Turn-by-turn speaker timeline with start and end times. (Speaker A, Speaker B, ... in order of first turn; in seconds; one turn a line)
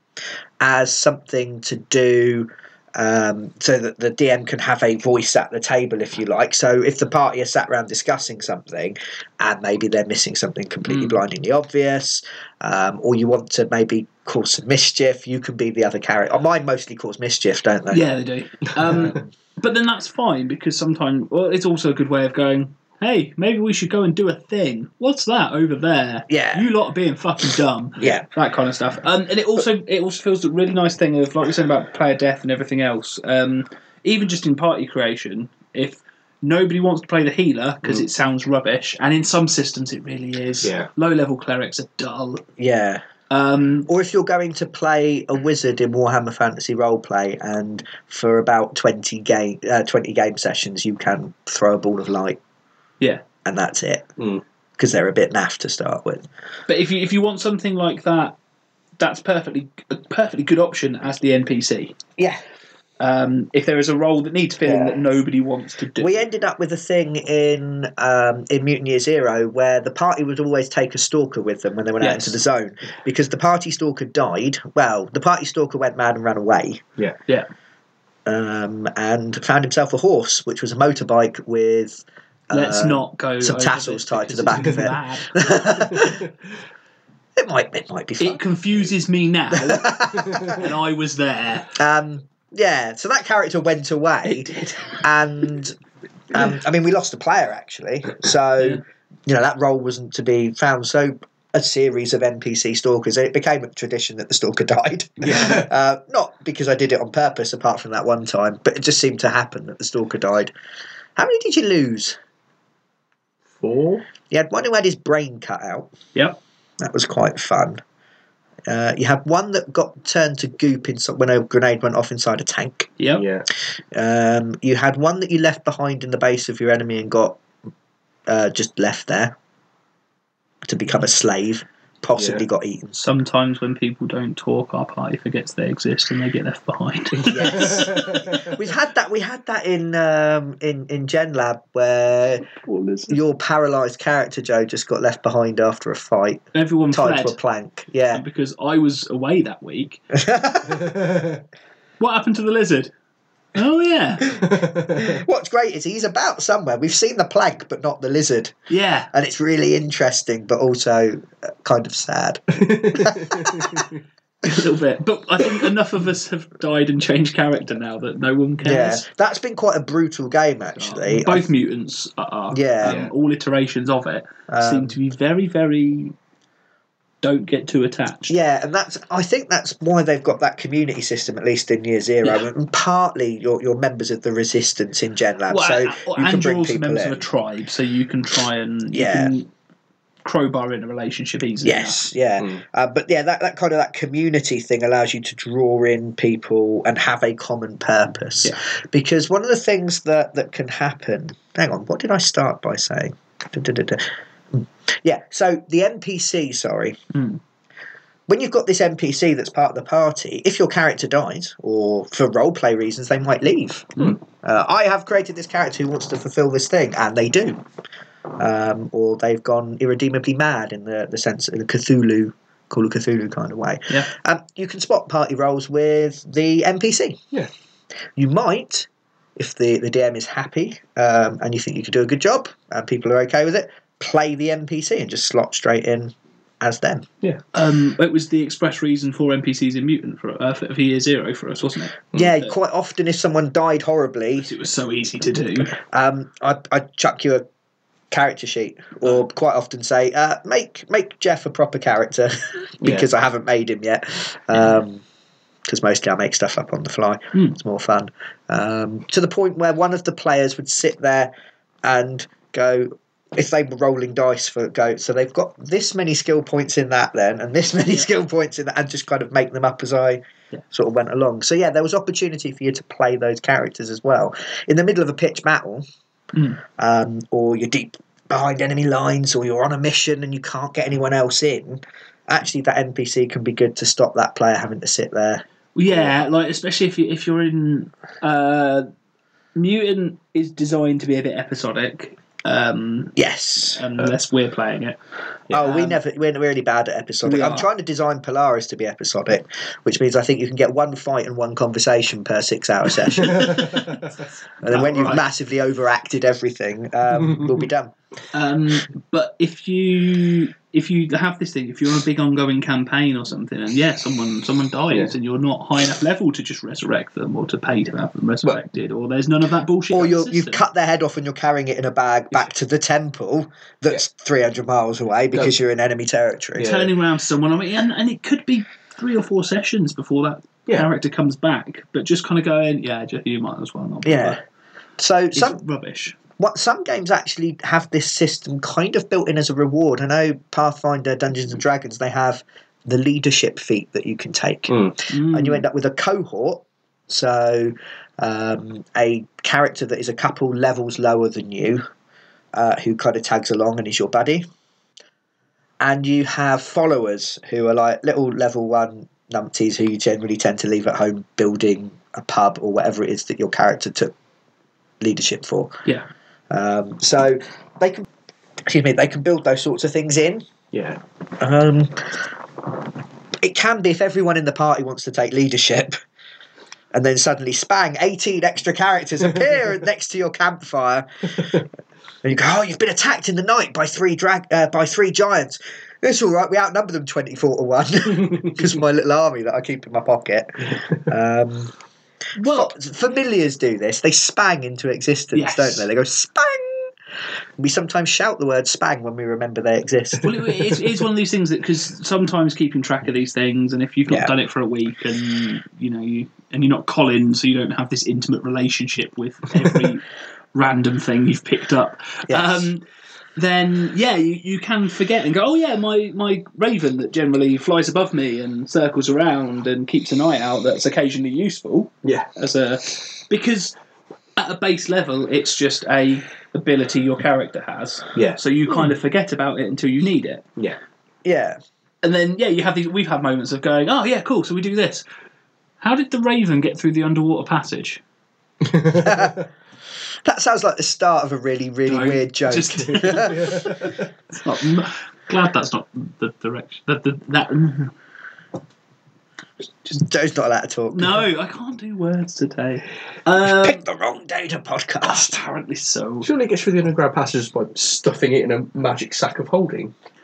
Speaker A: 0.6-18.1
Speaker B: 10.9-11.2
Speaker B: 17.9-42.4
Speaker A: 18.8-19.3
Speaker A: 26.3-26.7
Speaker A: 28.0-28.2
Speaker C: 40.6-40.9
Speaker A: 42.6-43.0
Speaker B: 43.3-43.9
Speaker A: 43.9-52.4
Speaker A: 53.4-54.1
Speaker A: 54.8-56.2
Speaker B: 56.7-58.4
Speaker B: 59.0-62.0
Speaker B: 63.0-66.2
Speaker A: 64.6-65.0
Speaker A: 66.0-76.8
Speaker B: 72.0-72.4
Speaker A: 78.2-86.2
Speaker B: 82.5-85.6
Speaker C: 86.0-86.3
Speaker A: 87.3-88.4
Speaker B: 88.2-91.7
Speaker A: 89.5-90.7
Speaker A: 91.8-95.8
Speaker B: 94.2-95.0
Speaker A: 96.3-110.5
Speaker C: 105.2-105.7
Speaker A: 111.2-112.2
Speaker C: 113.6-114.0
Speaker A: 114.3-115.9
Speaker A: 116.8-117.8
Speaker A: 118.7-122.9
Speaker C: 123.1-123.5
Speaker A: 123.9-127.4
Speaker A: 128.3-129.3
Speaker A: 130.7-133.1
Speaker C: 132.2-132.4
Speaker B: 133.0-137.9
Speaker A: 137.2-142.5
Speaker C: 137.3-138.5
Speaker B: 142.6-143.2
Speaker A: 143.1-148.2
Speaker B: 146.5-147.4
Speaker B: 148.1-150.0
Speaker A: 150.1-150.8
Speaker C: 150.7-151.4
Speaker B: 152.0-152.9
Speaker B: 153.5-154.3
Speaker C: 154.4-155.2
Speaker A: 155.0-158.6
Speaker B: 158.7-159.1
Speaker A: 159.1-163.9
Speaker C: 162.5-164.0
Speaker B: 164.4-169.0
Speaker A: 168.6-171.5
Speaker B: 170.8-176.1
Speaker A: 172.5-173.0
Speaker C: 172.8-173.1
Speaker A: 174.5-175.0
Speaker B: 177.2-178.3
Speaker A: 178.3-187.2
Speaker B: 185.5-189.5
Speaker A: 188.9-189.3
Speaker B: 190.2-192.0
Speaker A: 191.6-207.0
Speaker B: 207.1-207.4
Speaker A: 208.3-217.6
Speaker A: 218.4-227.2
Speaker A: 228.2-237.1
Speaker B: 237.5-242.5
Speaker A: 242.1-244.5
Speaker B: 244.4-245.8
Speaker A: 245.8-247.4
Speaker A: 248.1-255.0
Speaker C: 252.8-253.1
Speaker A: 255.7-261.3
Speaker A: 261.8-275.8
Speaker B: 276.3-276.6
Speaker A: 276.8-285.4
Speaker B: 285.7-288.9
Speaker B: 289.6-293.1
Speaker A: 293.1-293.8
Speaker B: 293.7-295.0
Speaker A: 295.5-304.0
Speaker B: 295.6-296.0
Speaker B: 297.2-297.7
Speaker C: 303.2-304.0
Speaker A: 304.6-307.9
Speaker B: 304.7-305.2
Speaker B: 308.3-320.6
Speaker A: 319.9-326.7
Speaker C: 326.6-326.9
Speaker B: 326.6-334.4
Speaker A: 334.0-334.4
Speaker A: 335.0-335.6
Speaker B: 335.3-336.2
Speaker A: 336.4-351.8
Speaker C: 344.7-344.9
Speaker B: 345.1-345.6
Speaker A: 352.5-354.4
Speaker A: 355.8-364.1
Speaker A: 365.0-365.8
Speaker A: 366.5-368.1
Speaker A: 368.6-370.4
Speaker C: 370.7-371.0
Speaker A: 371.4-372.3
Speaker A: 373.4-376.0
Speaker A: 376.9-381.6
Speaker A: 382.2-391.7
Speaker B: 392.4-392.7
Speaker A: 392.4-396.9
Speaker B: 395.3-395.9
Speaker A: 397.6-400.5
Speaker B: 400.2-412.8
Speaker A: 412.3-412.7
Speaker B: 413.4-423.7
Speaker C: 422.0-422.3
Speaker B: 424.4-430.4
Speaker C: 428.1-428.4
Speaker A: 431.2-431.6
Speaker B: 432.0-435.0
Speaker B: 435.8-438.0
Speaker C: 438.6-439.2
Speaker A: 439.0-439.4
Speaker A: 440.2-443.5
Speaker B: 441.9-447.9
Speaker C: 443.1-443.9
Speaker A: 449.9-451.2
Speaker B: 450.9-453.8
Speaker A: 453.4-455.4
Speaker B: 455.0-456.3
Speaker C: 456.2-459.9